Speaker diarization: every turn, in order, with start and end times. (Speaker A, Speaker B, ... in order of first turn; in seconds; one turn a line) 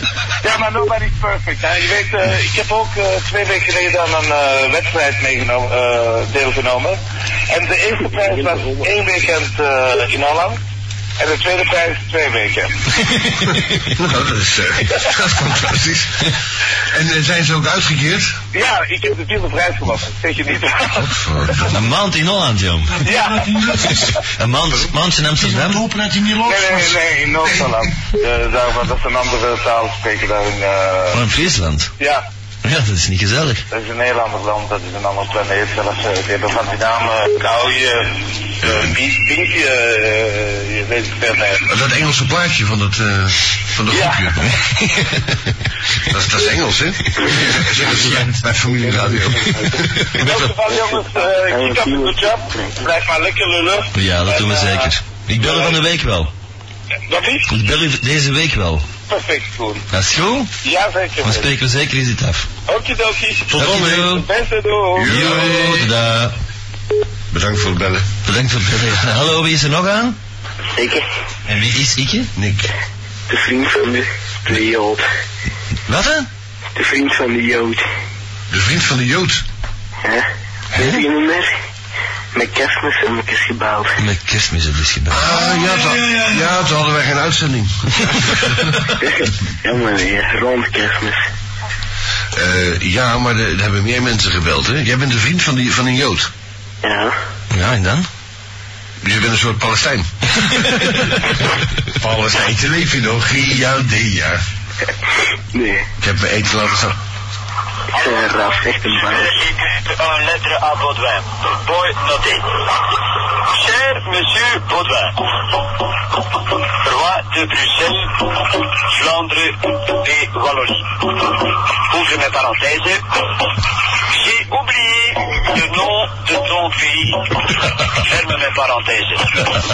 Speaker A: 0.4-10.6
Speaker A: 11.2-12.9
Speaker B: 13.9-18.4
Speaker A: 18.5-21.6
Speaker B: 21.1-21.8
Speaker C: 21.7-23.0
Speaker D: 22.9-24.2
Speaker A: 23.1-24.1
Speaker C: 24.4-25.9
Speaker D: 25.4-27.0
Speaker A: 26.4-31.2
Speaker C: 31.1-31.9
Speaker A: 32.0-32.2
Speaker C: 32.6-33.6
Speaker A: 33.7-41.7
Speaker B: 38.6-38.9
Speaker B: 41.7-44.5
Speaker A: 43.9-44.6
Speaker B: 46.0-50.1
Speaker C: 50.0-50.4
Speaker A: 50.1-55.8
Speaker E: 51.3-52.8
Speaker C: 53.9-56.3
Speaker A: 57.1-57.5
Speaker C: 57.5-58.9
Speaker A: 59.1-59.9
Speaker C: 59.9-60.5
Speaker A: 60.6-61.5
Speaker C: 61.2-62.5
Speaker A: 62.7-65.2
Speaker C: 63.5-64.3
Speaker B: 63.5-64.1
Speaker B: 65.0-65.9
Speaker C: 65.0-66.3
Speaker B: 67.3-68.1
Speaker C: 68.2-70.2
Speaker E: 70.7-71.0
Speaker C: 71.5-72.3
Speaker B: 72.4-72.7
Speaker E: 73.3-75.0
Speaker C: 75.9-76.3
Speaker E: 76.8-77.8
Speaker B: 78.5-79.4
Speaker E: 80.0-81.5
Speaker C: 80.8-81.0
Speaker E: 82.3-84.0
Speaker C: 84.0-85.3
Speaker B: 85.1-88.8
Speaker D: 85.2-86.6
Speaker E: 89.0-91.2
Speaker B: 92.3-96.3
Speaker E: 96.8-97.2
Speaker C: 97.5-98.1
Speaker B: 99.0-100.1
Speaker B: 101.9-104.4
Speaker E: 105.5-105.9
Speaker B: 106.0-107.0
Speaker F: 107.9-112.6
Speaker E: 107.9-109.3
Speaker F: 113.4-115.3
Speaker F: 116.7-123.0
Speaker F: 124.1-129.5